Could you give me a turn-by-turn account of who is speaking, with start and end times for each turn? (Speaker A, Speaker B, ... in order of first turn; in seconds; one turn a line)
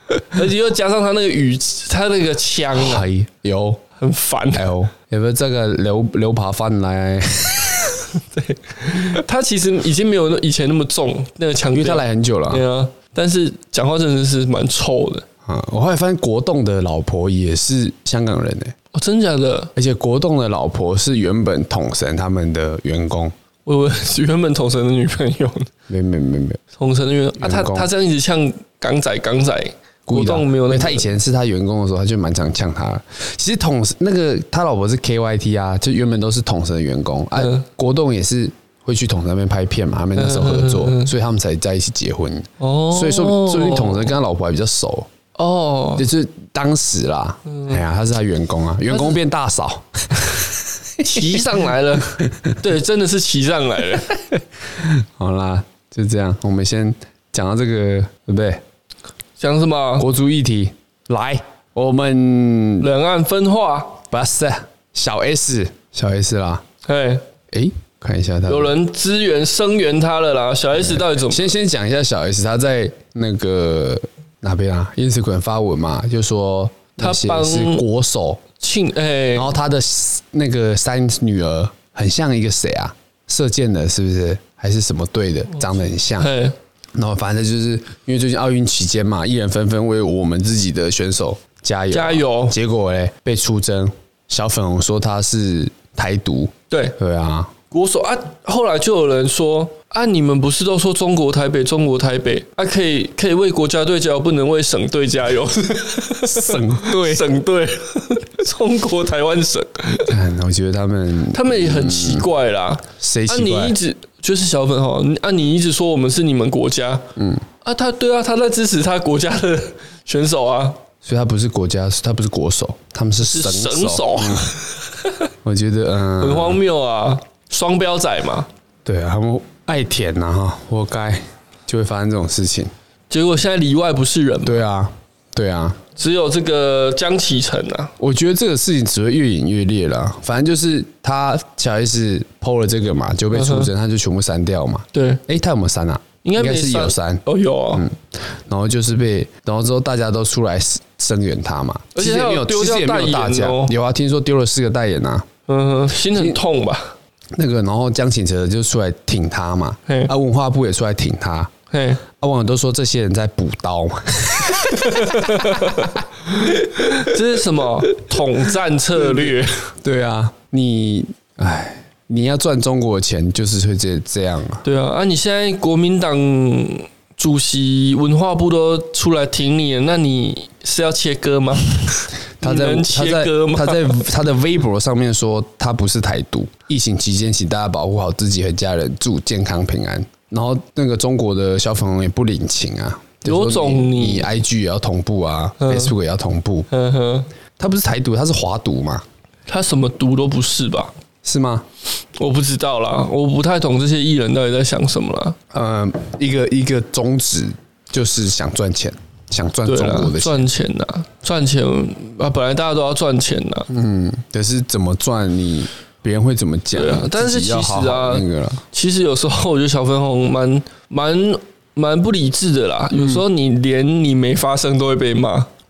Speaker A: 0.2-3.0
Speaker B: 2.7-3.8
Speaker A: 4.0-4.7
Speaker B: 4.5-8.0
Speaker A: 8.3-15.2
Speaker B: 11.7-12.6
Speaker B: 15.4-18.7
Speaker A: 18.9-19.7
Speaker B: 19.7-23.3
Speaker A: 23.6-25.7
Speaker B: 25.9-26.6
Speaker A: 26.8-31.1
Speaker B: 27.4-27.9
Speaker B: 30.1-45.1
Speaker A: 37.4-37.6
Speaker A: 40.1-41.1
Speaker A: 42.6-44.1
Speaker A: 45.4-46.0
Speaker B: 46.0-51.4
Speaker A: 47.5-47.8
Speaker A: 51.0-54.2
Speaker B: 54.8-58.6
Speaker A: 59.4-60.1
Speaker B: 60.0-62.9
Speaker A: 62.8-64.0
Speaker B: 64.1-66.6
Speaker A: 66.8-67.2
Speaker B: 67.5-68.8
Speaker A: 68.5-71.5
Speaker B: 70.7-78.4
Speaker A: 77.0-77.8
Speaker A: 78.6-79.5
Speaker B: 79.3-86.3
Speaker A: 86.2-86.5
Speaker B: 86.9-97.5
Speaker A: 91.9-92.6
Speaker A: 96.7-97.0
Speaker A: 97.7-110.1
Speaker B: 106.2-107.2
Speaker B: 110.1-112.3
Speaker A: 111.3-117.0
Speaker B: 113.0-113.8
Speaker B: 117.2-117.4
Speaker A: 117.6-120.8
Speaker B: 121.0-124.5
Speaker A: 123.2-125.1
Speaker B: 125.4-126.6
Speaker A: 126.2-128.5
Speaker B: 128.8-132.7
Speaker A: 133.1-134.6
Speaker B: 134.4-135.8
Speaker A: 135.9-137.9
Speaker B: 138.0-155.3
Speaker A: 143.3-143.7
Speaker A: 144.9-145.2
Speaker A: 146.2-147.8
Speaker A: 151.9-153.7
Speaker A: 155.5-156.9
Speaker B: 156.1-156.4
Speaker B: 157.3-161.5
Speaker A: 159.9-160.1
Speaker A: 161.7-162.0
Speaker B: 162.2-165.9
Speaker A: 164.8-166.0
Speaker B: 166.4-167.0
Speaker A: 166.9-169.7
Speaker B: 169.0-174.6
Speaker A: 174.6-184.0
Speaker B: 182.4-196.7
Speaker A: 193.2-194.3
Speaker A: 195.6-195.9
Speaker A: 196.7-197.3
Speaker B: 197.6-199.0
Speaker A: 199.5-200.9
Speaker B: 201.2-201.7
Speaker A: 202.2-205.4
Speaker B: 205.5-210.4
Speaker A: 209.6-213.7
Speaker B: 213.7-218.6
Speaker A: 216.7-225.5
Speaker B: 222.9-223.2